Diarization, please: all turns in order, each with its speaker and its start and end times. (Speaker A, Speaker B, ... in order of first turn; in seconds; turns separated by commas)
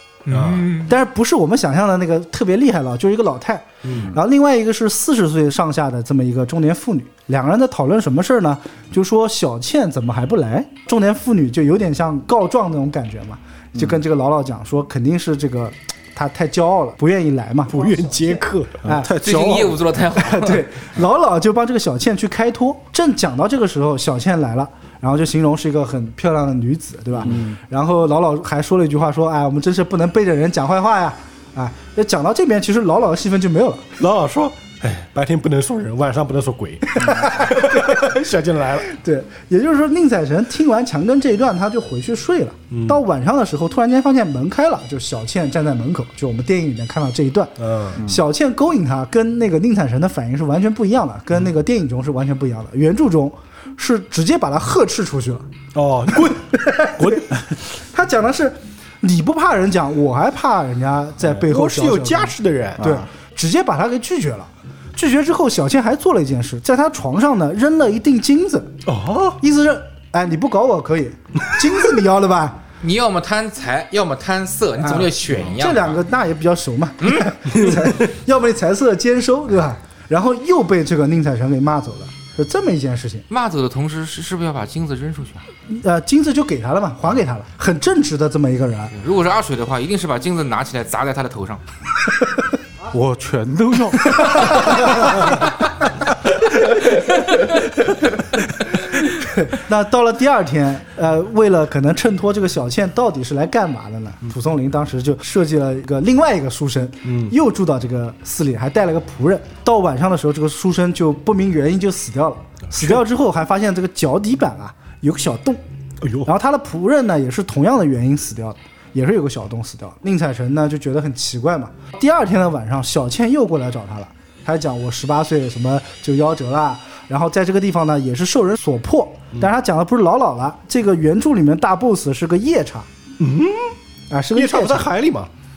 Speaker A: 0.3-0.9, Speaker B: 0.3-0.7, Speaker C: 0.9-17.8, Speaker B: 3.8-4.1, Speaker D: 3.9-4.2, Speaker D: 13.8-14.0, Speaker B: 17.7-18.8, Speaker C: 18.8-19.1, Speaker D: 18.8-20.1, Speaker A: 19.2-20.7, Speaker C: 20.2-33.9, Speaker D: 27.2-27.6, Speaker B: 34.0-38.9, Speaker C: 36.9-38.2, Speaker C: 38.8-55.5, Speaker B: 42.7-43.0, Speaker B: 47.6-48.0, Speaker D: 48.0-48.2, Speaker B: 55.8-57.2, Speaker C: 56.1-68.8, Speaker B: 61.2-62.8, Speaker D: 62.8-63.1, Speaker B: 68.9-69.4, Speaker C: 69.4-72.6, Speaker A: 72.8-76.0, Speaker C: 74.8-83.3, Speaker B: 77.5-78.0, Speaker A: 83.3-85.5, Speaker C: 85.7-88.9, Speaker A: 88.9-91.6, Speaker D: 92.9-94.9, Speaker C: 94.3-94.9, Speaker C: 98.9-115.6, Speaker B: 107.0-107.3, Speaker B: 112.7-113.0, Speaker B: 116.0-116.3, Speaker C: 116.2-132.9, Speaker B: 133.2-133.8, Speaker C: 134.1-134.9, Speaker B: 134.3-135.3